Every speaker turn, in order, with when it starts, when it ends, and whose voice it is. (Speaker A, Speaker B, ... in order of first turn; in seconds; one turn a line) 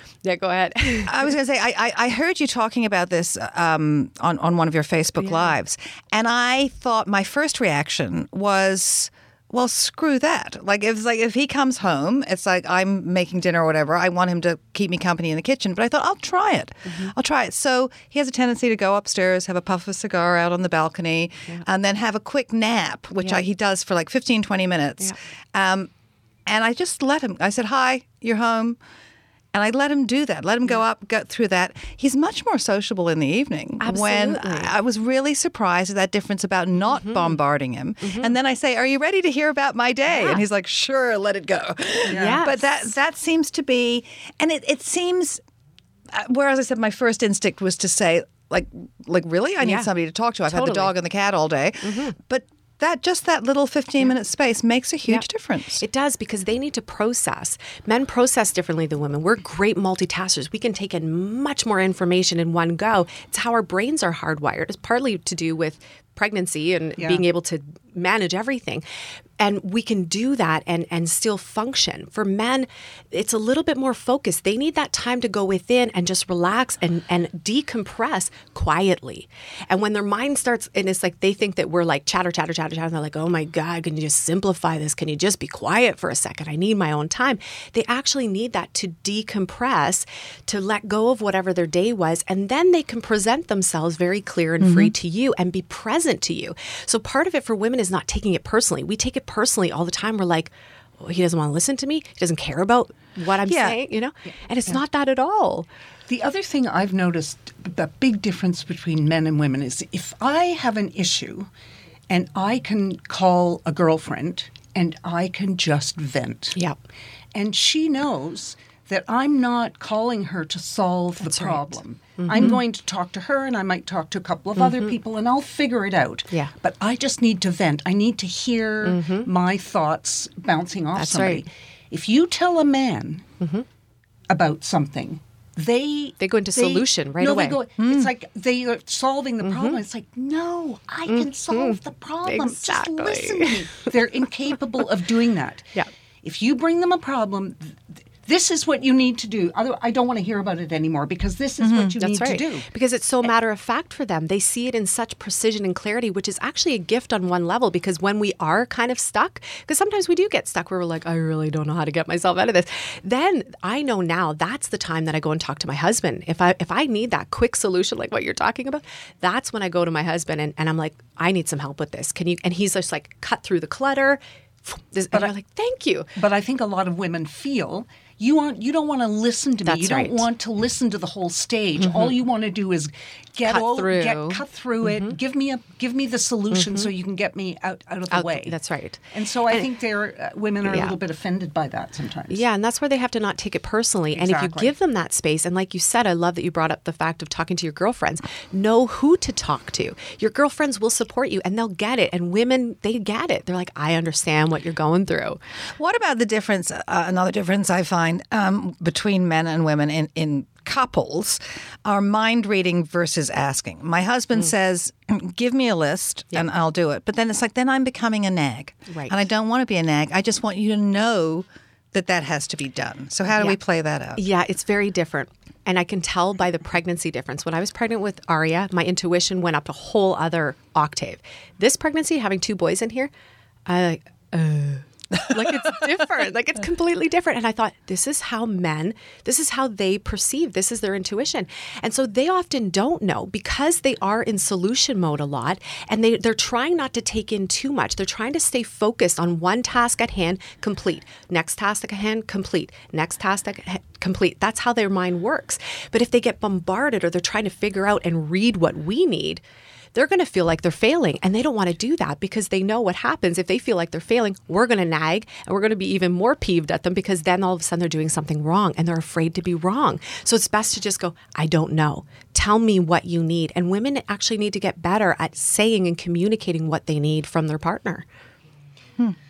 Speaker A: 0.2-1.2
Speaker B: 1.1-25.9
Speaker A: 5.2-5.6
Speaker A: 16.9-17.1
Speaker A: 23.2-23.4
Speaker B: 26.5-28.8
Speaker B: 29.5-45.4
Speaker A: 33.8-34.7
Speaker A: 36.9-37.4
Speaker A: 38.0-38.4
Speaker A: 40.1-40.4
Speaker C: 42.1-42.4
Speaker A: 42.1-42.9
Speaker B: 46.1-55.9
Speaker A: 49.6-49.9
Speaker A: 50.5-51.0
Speaker A: 51.8-52.2
Speaker A: 55.8-68.8
Speaker C: 67.0-67.2
Speaker A: 69.4-105.7
Speaker B: 94.6-94.9
Speaker B: 103.5-103.8
Speaker C: 106.1-111.5
Speaker C: 112.1-116.6
Speaker C: 117.3-133.2
Speaker A: 121.2-122.6
Speaker A: 124.6-125.0
Speaker A: 128.8-129.3
Speaker A: 130.9-131.4
Speaker A: 133.4-133.7
Speaker C: 134.3-145.7
Speaker A: 136.2-137.6
Speaker B: 137.8-138.1
Speaker A: 139.4-139.8
Speaker A: 141.1-143.9
Speaker C: 146.2-152.7
Speaker B: 151.6-151.9
Speaker A: 152.0-176.1
Speaker C: 176.2-188.6
Speaker A: 179.7-180.3
Speaker A: 181.8-182.2
Speaker A: 183.5-185.2
Speaker A: 186.5-186.9
Speaker A: 188.1-189.7
Speaker C: 189.1-192.4
Speaker A: 190.6-191.0
Speaker A: 192.3-205.4
Speaker C: 194.1-194.7
Speaker B: 205.8-224.2
Speaker A: 218.9-219.2
Speaker A: 223.3-223.6
Speaker A: 224.2-233.1
Speaker A: 233.7-259.4
Speaker A: 259.9-278.1